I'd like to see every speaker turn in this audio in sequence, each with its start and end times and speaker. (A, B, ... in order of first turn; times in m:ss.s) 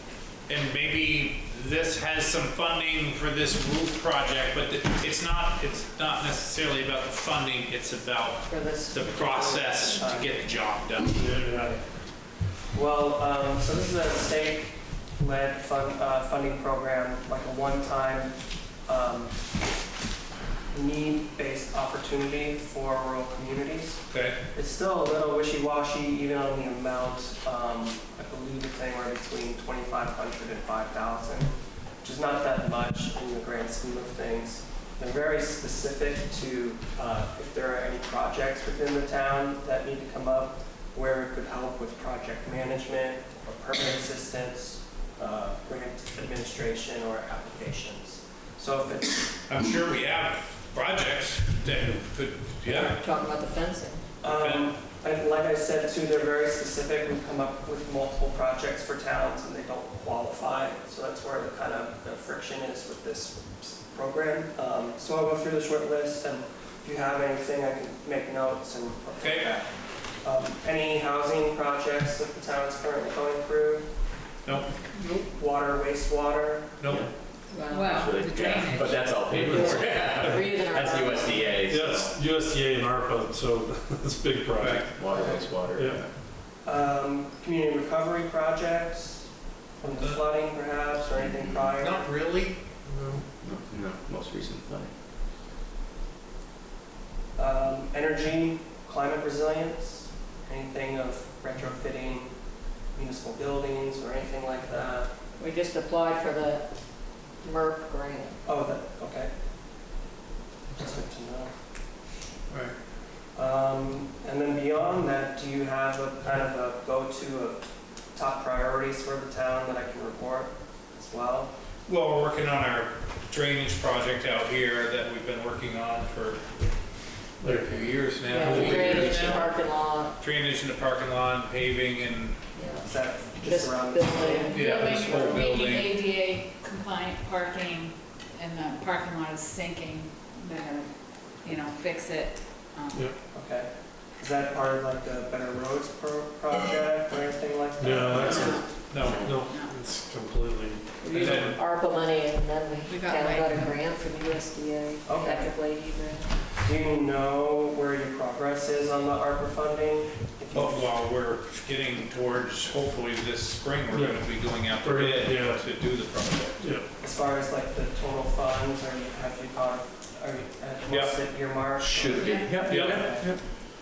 0:00.5-0:11.5 A
0:08.5-0:09.9 B
0:09.9-0:10.6 C
0:11.2-0:11.8 D
0:12.7-0:19.4 C
0:20.7-0:24.0 C
0:24.1-0:24.4 A
0:24.5-0:49.3 C
0:49.5-0:53.0 A
0:52.8-0:54.0 B
0:54.2-1:09.7 C
0:54.2-0:54.7 A
1:09.2-1:09.5 A
1:10.2-1:13.9 C
1:14.4-1:14.7 A
1:15.2-1:16.7 C
1:16.8-1:17.1 A
1:17.5-1:18.0 B
1:17.7-1:19.1 E
1:17.8-1:22.2 F
1:19.2-1:20.4 D
1:19.3-1:21.6 B
1:21.6-1:26.1 D
1:24.6-1:24.9 A
1:25.0-1:26.1 F
1:25.2-1:25.5 C
1:26.6-1:29.3 C
1:29.8-1:32.1 C
1:30.0-1:30.2 A
1:31.2-1:31.8 F
1:31.8-1:32.6 A
1:32.9-1:33.2 D
1:33.4-1:34.9 F
1:37.4-1:42.4 C
1:42.9-1:45.1 C
1:45.4-1:46.6 B
1:47.4-1:48.4 B
1:48.4-1:49.3 C
1:50.7-1:51.5 C
1:52.5-1:52.7 A
1:53.3-1:57.6 C
1:58.1-2:01.5 C
2:01.9-2:06.8 A
2:07.4-2:09.3 D
2:07.4-2:09.6 A
2:08.2-2:10.2 B
2:10.2-2:12.4 A
2:12.5-2:14.7 B
2:12.8-2:14.9 C
2:14.1-2:23.1 E
2:14.5-2:15.9 A
2:23.3-2:28.7 C
2:27.8-2:31.0 D
2:28.1-2:29.4 F
2:28.3-2:28.7 E
2:28.9-2:29.3 A
2:29.5-2:29.8 E
2:31.0-2:36.3 B
2:31.0-2:31.6 A
2:32.8-2:33.8 E
2:35.0-2:35.5 C
2:36.6-2:40.9 C
2:40.5-2:46.6 A
2:43.9-2:45.9 D
2:46.6-2:46.8 D
2:47.0-2:53.3 C
2:50.9-2:51.2 A
2:51.8-2:53.4 F
2:52.1-2:52.7 E
2:52.7-2:53.1 A